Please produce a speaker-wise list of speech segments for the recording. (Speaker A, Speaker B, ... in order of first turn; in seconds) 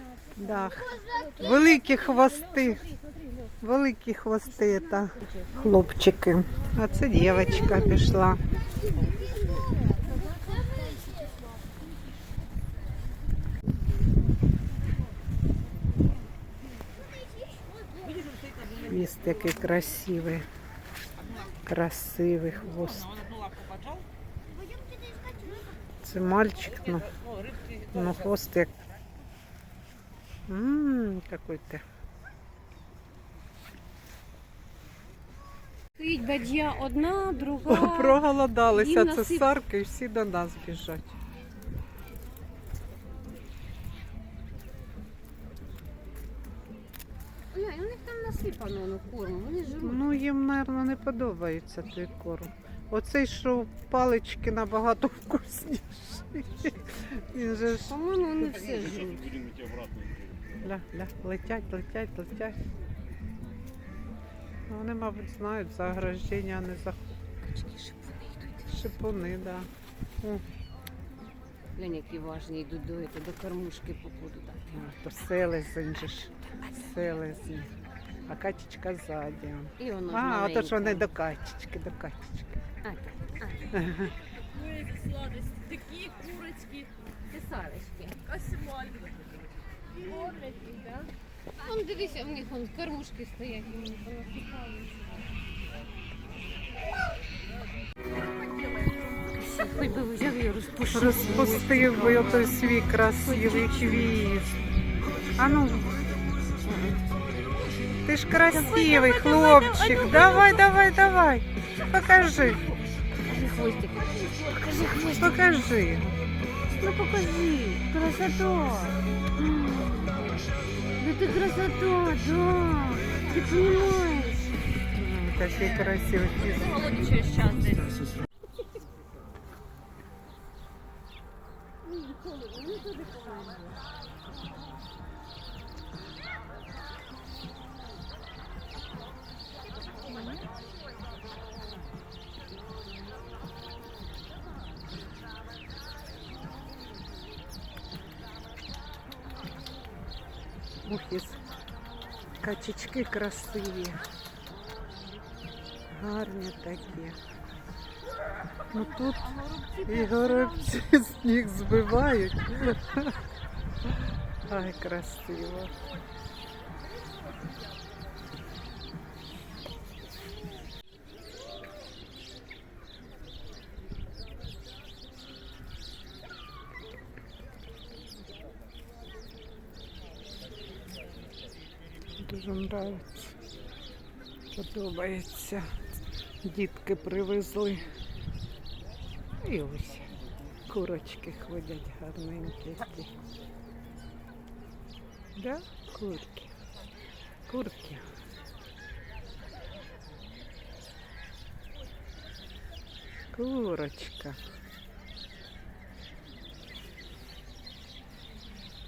Speaker A: 0.4-2.9, 3.6-8.4, 18.8-20.5, 21.6-23.3, 26.0-27.1, 27.8-28.7, 30.5-31.8, 37.7-41.1, 49.8-57.9, 60.6-62.6, 64.7-67.0, 68.7-69.7, 74.7-77.7, 78.3-82.6, 83.7-84.1, 100.9-104.5, 105.3-105.9, 108.0-112.6, 115.1-116.1, 124.9-126.9, 150.8-151.4, 152.4-154.0, 155.9-157.2, 158.7-159.3, 159.8-163.2, 164.4-165.7, 182.2-183.3, 184.5-185.7, 186.4-187.8, 189.4-190.1, 190.7-193.1, 195.3-196.5, 197.5-198.1, 203.3-204.4
Speaker B: 0.4-3.3, 4.7-5.6, 7.5-8.0, 10.1-10.5, 36.0-39.5, 47.5-50.0, 57.9-59.5, 67.4-68.6, 71.7-74.7, 79.8-81.1, 82.8-83.7, 87.3-88.2, 91.6-95.0, 99.3-102.5, 103.2-104.2, 106.6-107.0, 108.5-110.7, 113.2-115.6, 116.8-120.2, 121.0-124.5, 132.1-133.7, 140.1-140.4, 159.1-160.8
Speaker C: 84.4-86.9, 88.2-89.2, 90.0-91.1, 98.5-99.1, 126.4-128.0